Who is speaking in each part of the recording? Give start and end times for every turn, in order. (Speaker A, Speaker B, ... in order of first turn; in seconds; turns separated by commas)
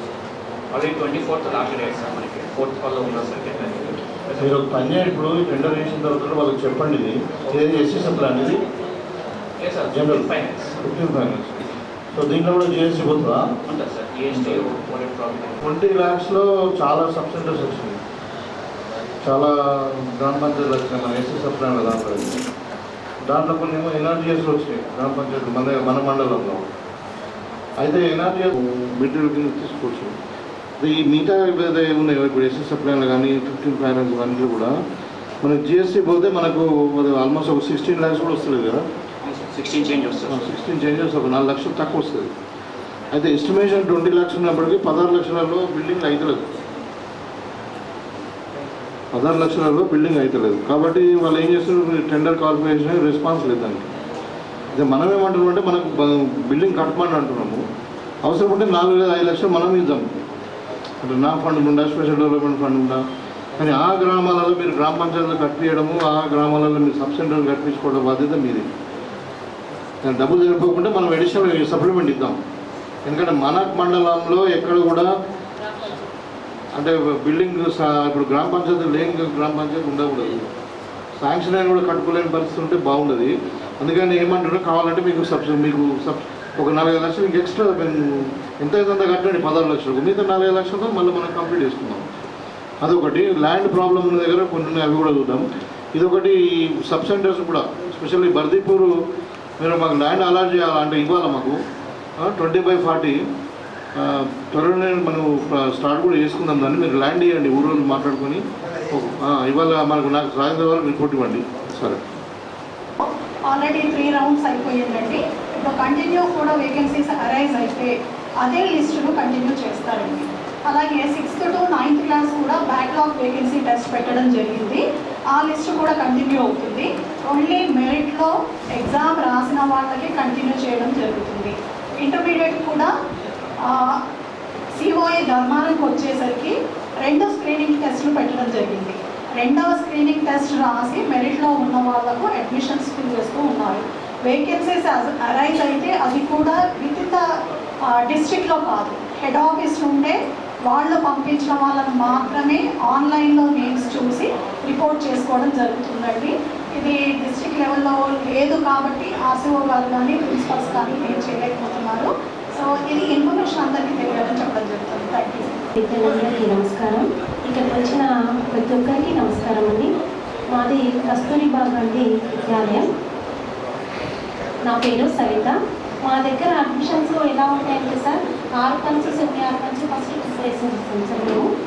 Speaker A: 0.7-4.6, Speaker B: 4.4-8.6, Speaker A: 9.6-10.9, Speaker B: 9.9-11.6, Speaker B: 12.1-13.5, Speaker A: 13.7-15.6, Speaker B: 14.3-14.7, Speaker B: 15.6-18.0, Speaker B: 19.2-22.4, Speaker B: 23.3-26.7, Speaker B: 27.8-30.1, Speaker B: 30.8-34.7, Speaker B: 35.4-38.8, Speaker A: 39.2-40.6, Speaker B: 40.3-42.3, Speaker B: 43.1-46.4, Speaker B: 49.1-53.9, Speaker B: 54.7-57.6, Speaker B: 58.2-60.0, Speaker B: 61.0-63.0, Speaker B: 63.6-68.7, Speaker B: 70.0-72.4, Speaker B: 73.0-75.1, Speaker B: 76.7-80.4, Speaker B: 81.2-92.0, Speaker B: 92.8-98.9, Speaker B: 99.6-101.6, Speaker B: 102.2-103.2, Speaker B: 103.9-112.0, Speaker C: 113.0-132.9, Speaker C: 133.6-134.0, Speaker C: 134.7-147.3, Speaker C: 147.8-165.6, Speaker D: 165.8-169.9, Speaker D: 170.5-172.8, Speaker D: 174.6-181.5